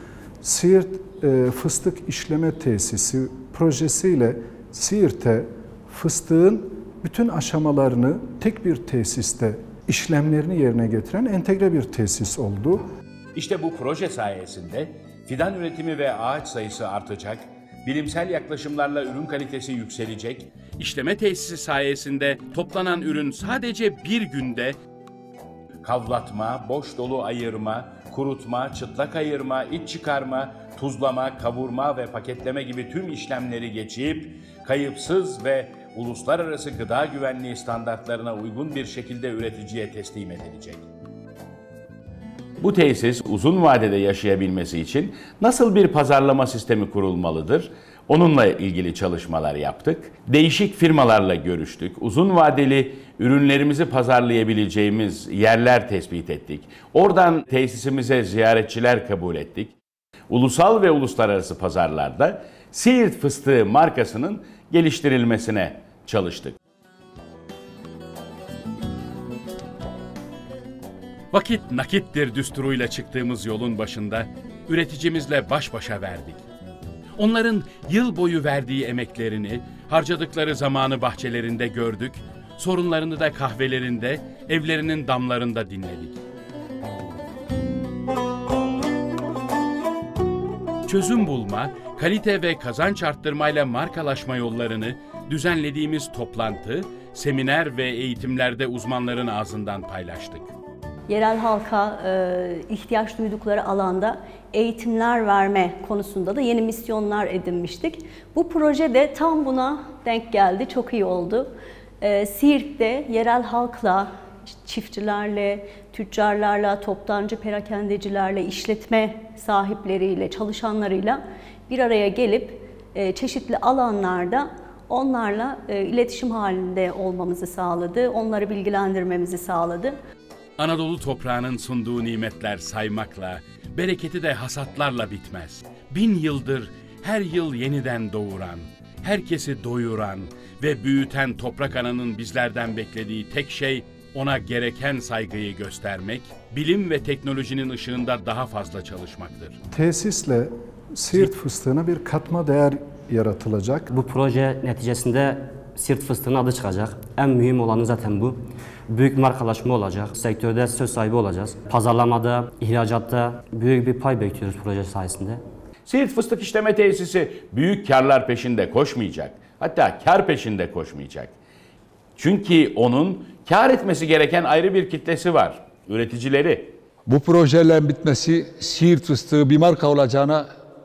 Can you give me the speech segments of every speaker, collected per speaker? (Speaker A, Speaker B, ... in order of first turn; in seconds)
Speaker A: 0.4-12.9, 149.7-153.9
Speaker B: 13.3-24.8, 25.8-40.8, 42.6-59.7, 60.3-66.5, 71.3-76.4, 77.2-86.2, 90.9-100.5, 130.6-149.6, 165.8-171.3, 172.2-176.7
Speaker C: 101.1-129.9
Speaker D: 153.9-158.4, 158.9-165.4
Speaker E: 177.1-180.5